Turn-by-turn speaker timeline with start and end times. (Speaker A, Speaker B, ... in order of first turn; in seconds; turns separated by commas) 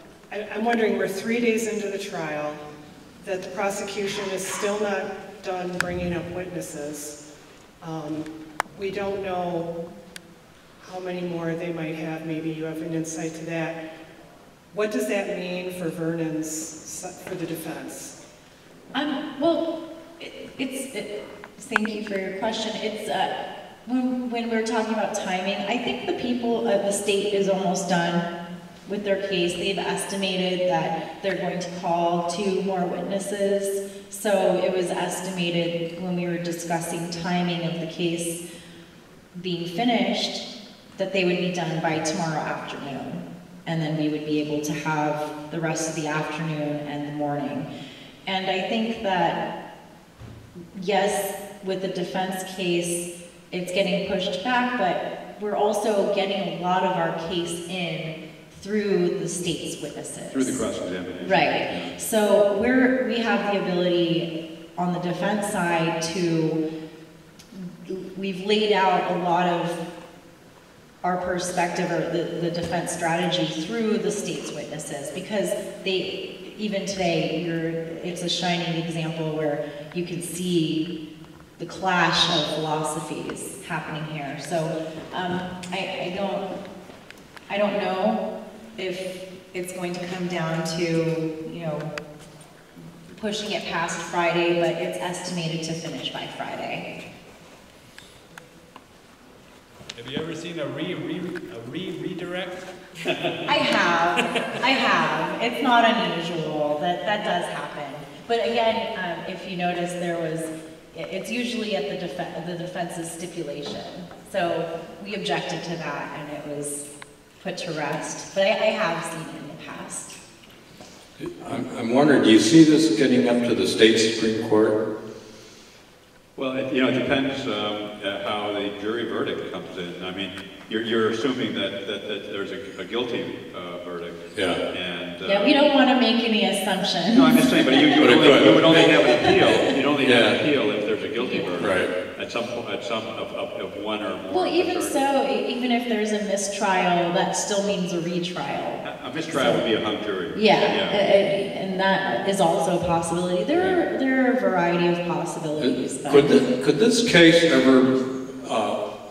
Speaker A: 0.3-2.6, Speaker A: 3.2-7.2, Speaker A: 7.8-9.7, Speaker A: 10.8-13.8, Speaker A: 14.7-18.1, Speaker B: 18.9-28.3, Speaker B: 28.9-38.4, Speaker B: 39.4-47.7, Speaker B: 48.2-49.4, Speaker B: 50.7-60.6, Speaker C: 60.3-61.9, Speaker B: 61.2-66.6, Speaker B: 67.5-69.8, Speaker B: 71.0-80.9, Speaker B: 81.6-86.5, Speaker B: 87.5-91.9, Speaker B: 93.1-96.9, Speaker D: 99.9-103.5, Speaker C: 103.0-103.3, Speaker B: 103.5-120.2, Speaker E: 121.2-124.8, Speaker C: 126.3-135.6, Speaker E: 134.3-134.6, Speaker B: 135.2-139.6, Speaker C: 137.1-145.1, Speaker E: 138.0-140.4, Speaker B: 141.2-141.6, Speaker E: 141.6-141.9, Speaker B: 144.3-149.7, Speaker C: 148.8-151.0, Speaker B: 150.3-156.3, Speaker C: 153.5-153.8, Speaker E: 155.6-158.8